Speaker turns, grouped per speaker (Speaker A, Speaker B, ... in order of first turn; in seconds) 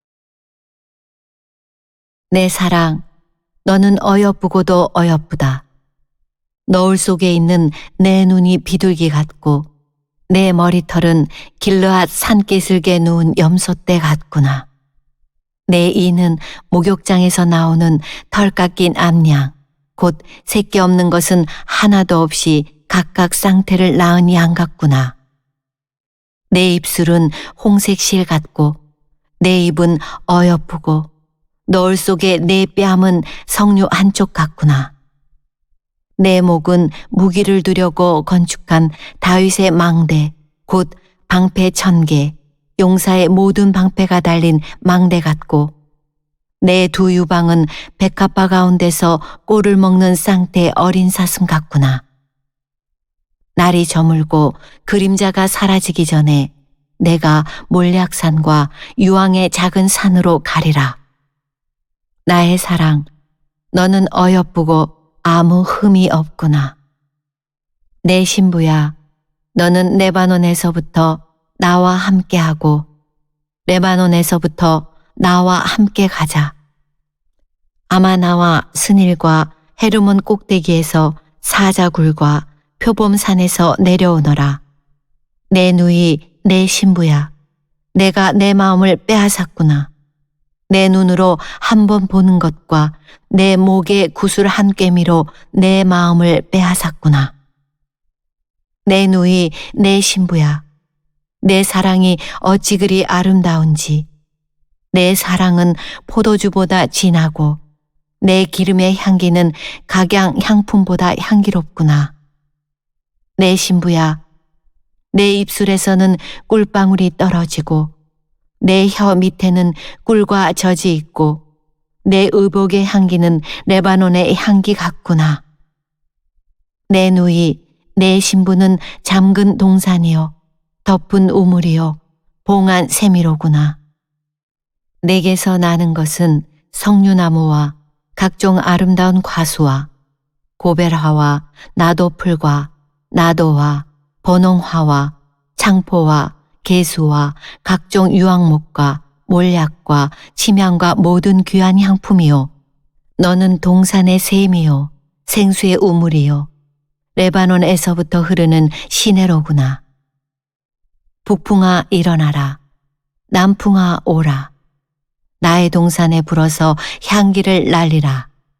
Speaker A: 2.3-3.0, 3.6-5.6, 6.7-9.7, 10.3-14.7, 15.7-25.1, 26.5-28.8, 29.4-31.1, 31.7-34.9, 36.2-45.7, 46.6-52.0, 53.5-61.0, 62.3-63.1, 63.7-66.7, 68.0-68.9, 69.5-72.8, 73.7-76.5, 77.9-84.6, 85.5-87.3, 87.9-89.9, 90.7-97.3, 98.9-100.6, 101.4-104.1, 104.9-107.6, 108.2-112.1, 113.4-114.2, 115.1-117.9, 118.6-121.4, 122.0-125.4, 126.9-130.3, 130.8-133.8, 135.0-139.9, 140.6-152.5, 153.2-156.5, 157.2-159.8, 161.2-162.6, 163.3-164.5, 165.4-168.3